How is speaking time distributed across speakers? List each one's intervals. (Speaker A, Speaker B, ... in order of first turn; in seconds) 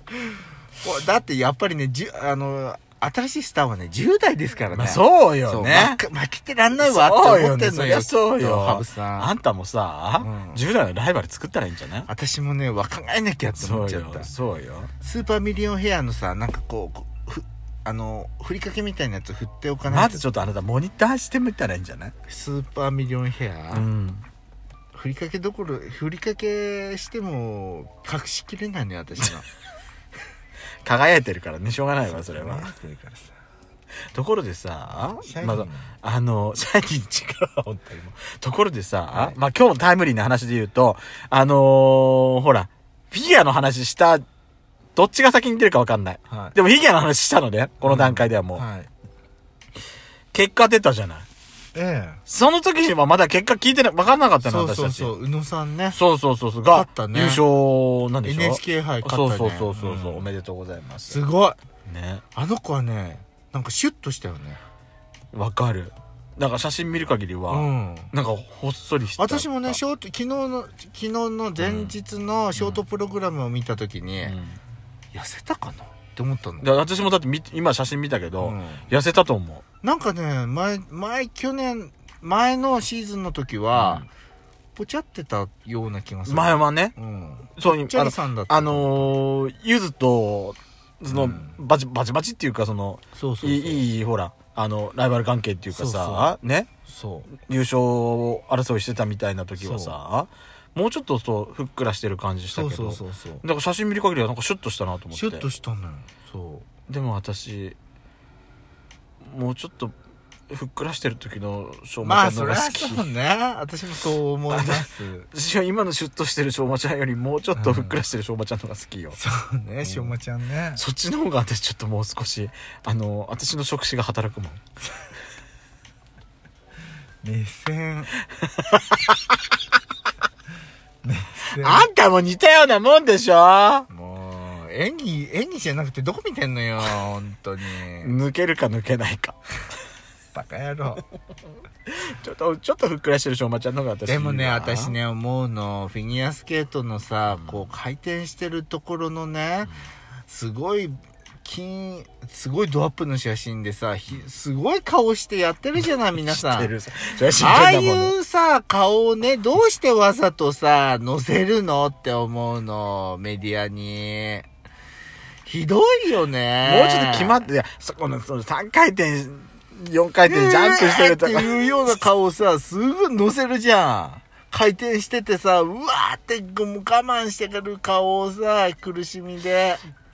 Speaker A: 0.8-9.3, 10.2-10.6, 12.1-14.3, 15.0-20.3, 22.3-23.9, 24.9-29.4, 32.1-33.3, 35.2-35.9, 46.3-46.5, 47.8-48.9, 51.7-52.2, 54.4-56.0, 56.7-57.4, 58.2-60.3, 61.1-61.6, 62.3-64.6, 67.5-68.1, 69.2-74.4, 75.1-76.7, 78.4-78.8, 79.8-84.1, 84.7-89.1, 91.1-91.5, 93.1-93.8, 95.7-96.3, 96.8-97.3, 99.6-100.0, 102.5-103.4, 105.1-106.7, 112.0-115.3, 117.5-118.0, 119.1-120.8, 127.2-128.1, 131.0-131.9, 133.9-138.1, 140.3-141.0, 144.1-149.7, 150.3-156.7, 157.3-164.5, 165.4-167.4, 170.2-179.8
Speaker B: 4.7-6.0, 6.8-12.1, 13.6-14.9, 19.9-22.1, 23.7-24.2, 30.8-32.7, 34.1-44.2, 44.9-48.6, 50.3-51.2, 52.3-55.1, 55.9-61.2, 61.9-62.2, 65.3-69.8, 71.6-71.9, 72.5-72.8, 74.2-74.6, 76.6-79.6, 83.7-84.0, 86.2-86.9, 87.5-96.7, 97.4-105.5, 106.9-107.8, 109.2-109.9, 110.5-113.0, 114.5-119.2, 119.8-120.1, 120.8-124.6, 128.6-129.1, 131.6-133.9, 138.0-139.3, 141.8-144.9, 156.2-158.1, 166.6-171.9